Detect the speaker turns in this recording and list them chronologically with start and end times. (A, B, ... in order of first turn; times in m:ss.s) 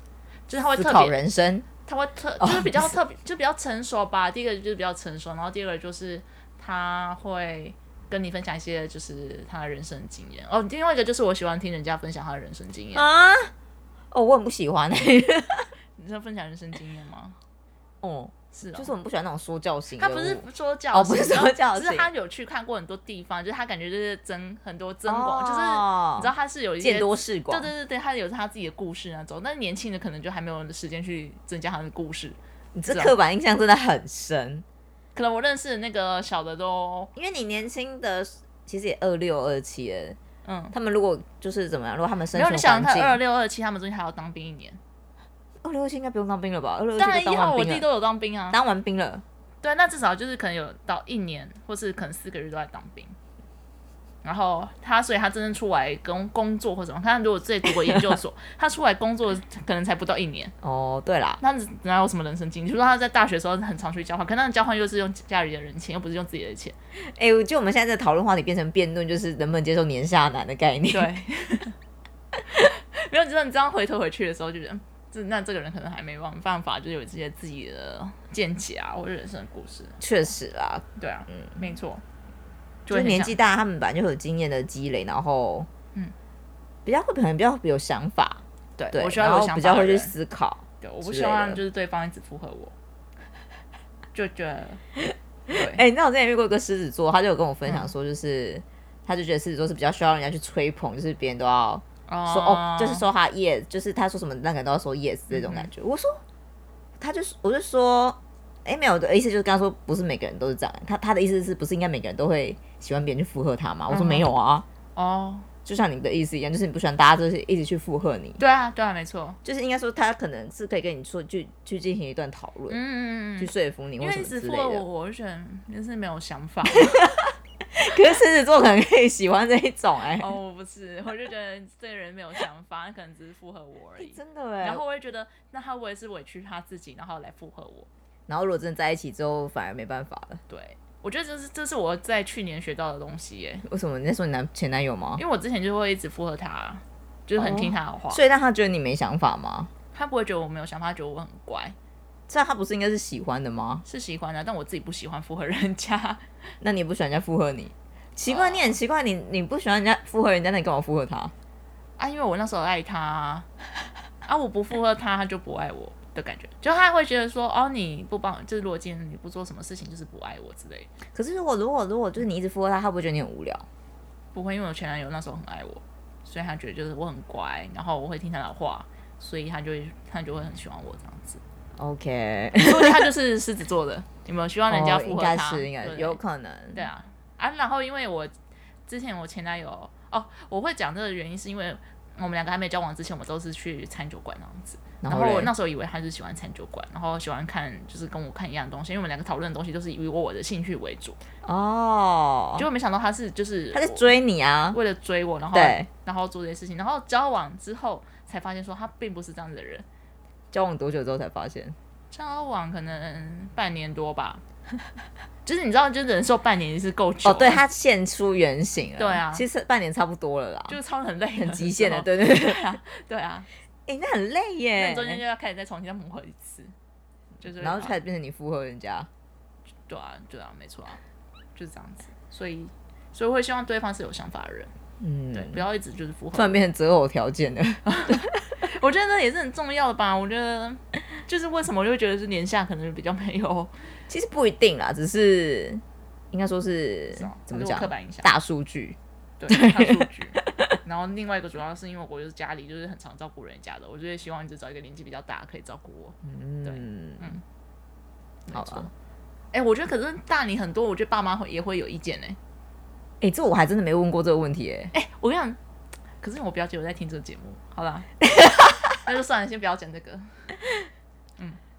0:00.5-0:01.2 A
0:00.7-0:01.7 B
0:01.8-0:13.0 A
0:02.4-0:02.9 B
0:12.9-0:13.5 B
0:14.1-0:15.7 B
0:16.0-0:17.4 A
0:18.0-0:22.1 B
0:18.5-0:18.9 A
0:20.0-0:32.4 A
0:25.1-0:27.7 B
0:32.7-0:34.6 B
0:32.9-0:33.1 A
0:35.1-0:37.1 A
0:37.2-0:40.2 B
0:40.4-0:40.7 A
0:40.7-0:43.2 B
0:42.3-0:44.8 A
0:45.6-0:47.8 B
0:47.0-0:48.6 A
0:48.5-0:49.2 B
0:49.6-0:53.2 A
0:54.2-1:00.5 A
1:00.6-1:01.4 B
1:01.4-1:06.8 A
1:07.0-1:11.1 B
1:10.9-1:11.8 A
1:12.5-1:20.0 A
1:20.0-1:21.6 B
1:21.0-1:22.0 A
1:22.8-1:23.4 A
1:22.9-1:25.7 B
1:26.8-1:31.6 B
1:28.8-1:30.1 A
1:30.8-1:32.7 A
1:34.1-1:34.8 A
1:35.0-1:46.2 B
1:35.5-1:35.8 A
1:37.6-1:37.9 A
1:42.1-1:43.0 A
1:45.3-1:45.7 A
1:47.0-1:54.6 B
1:53.9-1:54.3 A
1:54.9-1:55.5 A
1:55.6-1:58.4 B
1:58.4-1:59.4 A
1:59.4-2:02.8 B
2:02.7-2:07.1 A
2:03.4-2:04.8 B
2:06.7-2:10.3 B
2:10.2-2:17.9 A
2:14.0-2:14.8 B
2:18.3-2:20.4 B
2:20.5-2:23.6 A
2:23.6-2:25.2 B
2:25.2-2:28.2 A
2:27.4-2:29.7 B
2:29.9-2:31.7 A
2:32.3-2:33.8 B
2:33.8-2:36.2 A
2:36.6-2:41.3 B
2:38.2-2:38.8 A
2:42.0-2:43.5 A
2:44.2-2:50.9 A
2:51.1-2:53.6 B
2:54.3-3:01.4 A
3:01.8-3:03.1 B
3:02.6-3:06.2 A
3:04.7-3:06.8 B
3:06.7-3:08.3 A
3:08.9-3:21.2 A
3:15.0-3:15.5 B
3:21.4-3:22.7 B
3:22.6-3:24.0 A
3:23.7-3:24.8 B
3:24.7-3:29.8 A
3:25.5-3:25.9 B
3:30.5-3:31.8 B
3:32.1-3:34.4 A
3:35.4-3:37.6 A
3:37.2-3:40.8 B
3:39.0-3:39.4 A
3:40.7-3:43.5 A
3:41.4-3:42.7 B
3:43.9-3:45.2 B
3:44.8-3:46.7 A
3:47.4-3:47.9 A
3:47.4-3:49.1 B
3:49.9-3:51.0 A
3:51.5-3:54.7 A
3:55.0-3:55.6 B
3:55.3-3:56.6 A
3:56.3-3:58.6 B
3:57.8-4:03.7 A
4:04.1-4:09.0 B
4:07.1-4:08.3 A
4:09.4-4:17.4 A
4:09.5-4:10.7 B
4:16.2-4:17.4 B
4:18.5-4:18.9 A
4:18.5-4:18.9 B
4:19.5-4:22.4 A
4:23.2-4:24.9 B
4:24.9-4:25.6 A
4:26.2-4:28.1 A
4:28.3-4:28.8 B
4:29.0-4:30.4 A